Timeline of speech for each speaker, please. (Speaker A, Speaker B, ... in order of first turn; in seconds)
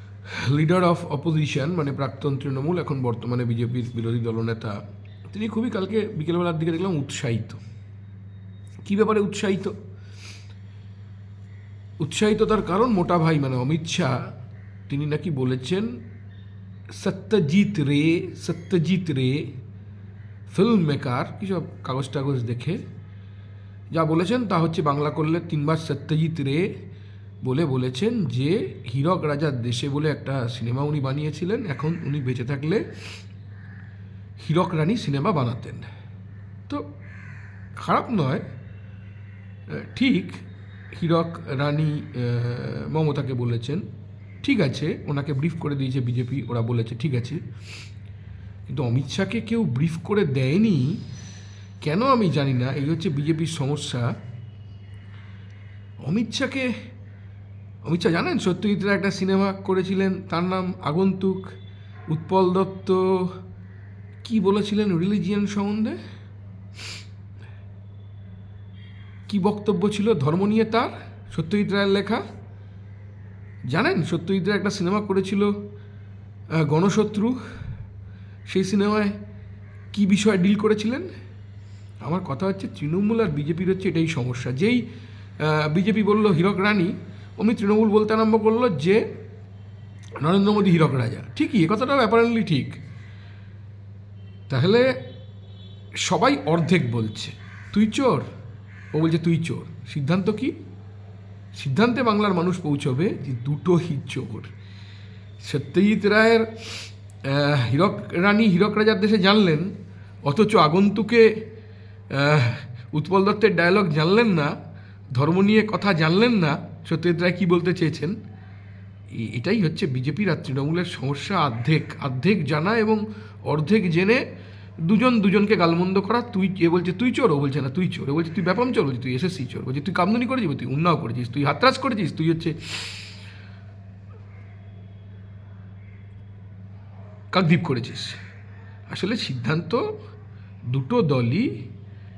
Speaker A: 0.4-7.6, 8.8-9.7, 12.0-14.2, 14.9-15.9, 16.9-19.5, 20.5-22.8, 23.9-26.7, 27.4-32.9, 34.4-35.9, 37.8-38.4, 39.7-43.8, 44.4-47.4, 48.7-51.0, 51.8-54.1, 56.0-56.7, 57.9-61.5, 62.1-63.3, 64.2-66.0, 69.3-72.2, 73.7-75.5, 76.6-77.4, 78.5-79.2, 79.9-81.1, 82.0-84.8, 85.4-89.0, 90.2-92.8, 94.5-94.9, 96.1-98.3, 98.9-100.5, 101.5-104.5, 105.4-109.7, 110.2-111.4, 112.1-114.5, 115.2-118.2, 119.1-124.2, 124.8-133.0, 137.3-138.2, 138.9-139.9, 140.7-141.6